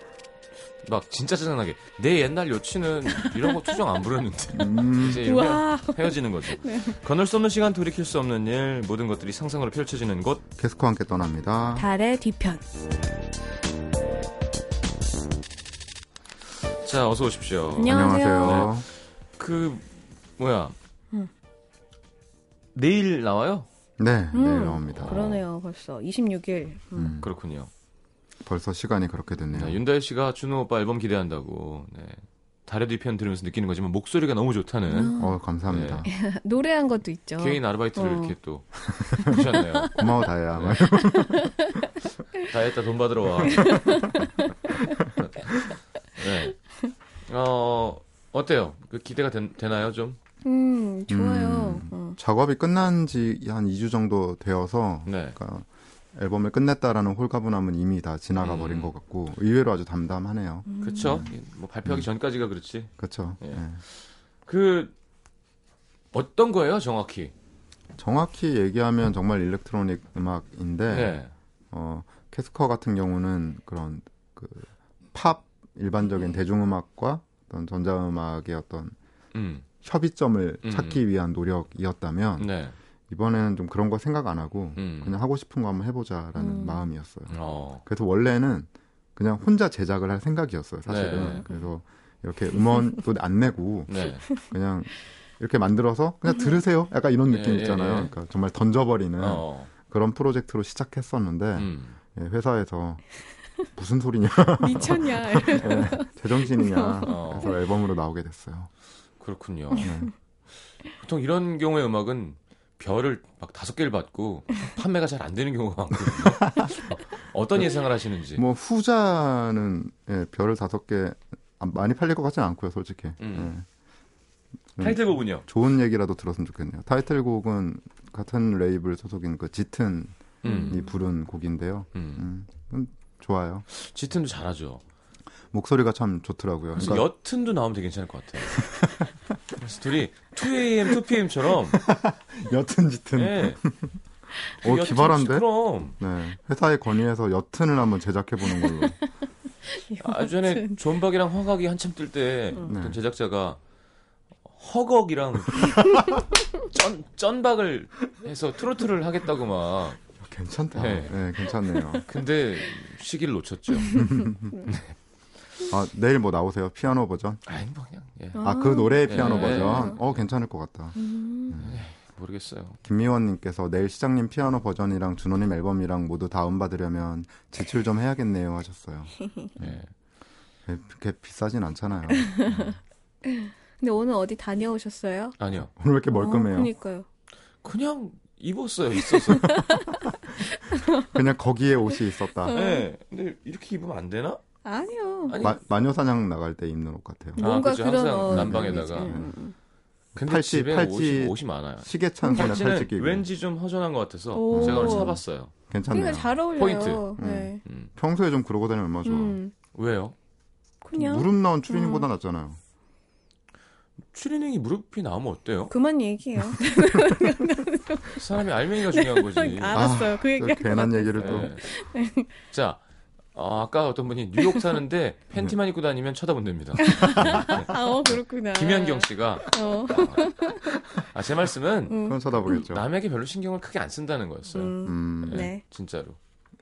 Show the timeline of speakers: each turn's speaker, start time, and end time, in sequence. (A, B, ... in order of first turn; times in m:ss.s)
0:00.8-0:10.4 A
0:04.5-0:05.2 B
0:05.2-0:07.0 C
0:10.6-0:11.8 B
0:11.8-0:12.6 C
0:16.8-0:18.8 A
0:17.8-0:18.7 C
0:17.8-0:18.8 B
0:19.4-0:20.7 A
0:22.7-0:23.7 A
0:24.0-0:25.4 B
0:24.3-0:27.1 C
0:24.9-0:25.4 A
0:26.9-0:27.3 B
0:27.2-0:27.7 A
0:28.4-0:29.8 B
0:29.5-0:35.1 A
0:34.9-0:35.4 C
0:35.2-0:36.1 B
0:35.7-0:36.0 A
0:36.1-0:38.3 C
0:37.4-0:40.8 A
0:39.9-0:41.5 B
0:41.1-0:41.8 C
0:42.4-0:43.9 A
0:43.6-0:44.7 C
0:45.2-0:45.5 A
0:46.1-0:46.6 A
0:47.2-0:50.2 A
0:50.4-0:52.2 C
0:51.1-1:01.3 B
0:55.0-0:55.4 A
0:58.4-0:58.9 A
1:00.7-1:01.3 C
1:00.8-1:04.9 A
1:03.0-1:03.8 B
1:06.1-1:07.3 A
1:08.0-1:11.2 B
1:10.9-1:11.3 A
1:11.7-1:18.9 B
1:19.3-1:19.6 A
1:19.8-1:22.5 B
1:20.6-1:21.0 A
1:22.4-1:22.8 A
1:23.1-1:43.0 B
1:24.8-1:25.2 A
1:26.4-1:26.8 C
1:27.3-1:27.8 A
1:30.8-1:31.4 A
1:33.9-1:34.3 A
1:37.3-1:38.1 A
1:39.2-1:39.7 A
1:41.6-1:42.0 A
1:43.7-1:48.7 B
1:44.6-1:47.1 C
1:47.0-1:47.6 A
1:49.2-1:49.9 A
1:49.8-1:50.1 B
1:50.9-1:58.4 A
1:58.4-2:03.6 B
2:03.2-2:03.5 A
2:04.8-2:13.6 B
2:04.8-2:05.4 A
2:10.4-2:10.8 A
2:10.4-2:10.8 C
2:11.9-2:12.2 A
2:13.7-2:14.8 A
2:15.5-2:17.0 B
2:16.7-2:18.6 A
2:18.6-2:19.1 B
2:19.6-2:21.8 A
2:21.8-2:24.0 B
2:23.1-2:23.6 A
2:24.6-2:25.9 A
2:24.6-2:29.0 B
2:28.6-2:29.1 C
2:29.7-2:30.8 C
2:30.0-2:33.6 A
2:32.6-2:33.0 B
2:34.4-2:35.8 A
2:36.6-2:40.0 A
2:40.2-2:42.1 B
2:40.7-2:41.5 A
2:42.0-2:45.0 A
2:43.9-2:44.6 B
2:45.7-2:47.6 B
2:47.4-2:50.2 A
2:48.4-2:50.0 C
2:48.4-2:51.0 B
2:51.0-2:51.6 C
2:51.5-2:51.8 B
2:51.6-2:52.8 A
2:52.8-2:59.8 B
2:59.6-2:59.9 A
3:00.6-3:02.8 B
3:03.2-3:05.4 C
3:05.4-3:05.7 A
3:05.6-3:06.7 B
3:06.1-3:07.0 C
3:07.6-3:09.5 A
3:09.4-3:09.9 C
3:10.7-3:11.0 C
3:11.0-3:12.5 B
3:12.4-3:12.9 C
3:12.5-3:14.4 A
3:14.6-3:15.3 C
3:15.3-3:15.7 A
3:15.4-3:17.4 B
3:17.4-3:19.5 C
3:17.4-3:19.2 A
3:18.2-3:19.3 B
3:20.1-3:23.3 B
3:20.1-3:25.5 A
3:22.2-3:22.5 C
3:24.3-3:25.2 C
3:24.5-3:26.3 B
3:25.9-3:27.6 C
3:26.6-3:27.1 A
3:27.2-3:29.4 B
3:27.6-3:27.9 A
3:29.0-3:29.5 C
3:29.7-3:30.1 A
3:30.8-3:32.1 C
3:30.9-3:32.6 B
3:34.1-3:35.7 A
3:35.7-3:38.2 C
3:38.1-3:39.9 A
3:38.8-3:42.3 C
3:39.7-3:41.5 B
3:41.2-3:41.6 A
3:42.5-3:42.8 A
3:43.3-3:47.7 A
3:44.4-3:44.7 C
3:46.8-3:50.6 C
3:47.0-3:47.6 B
3:48.5-3:50.3 A
3:51.1-3:56.2 A
3:51.9-3:52.3 C
3:52.0-3:52.9 B
3:54.5-3:55.6 C
3:54.8-3:55.5 B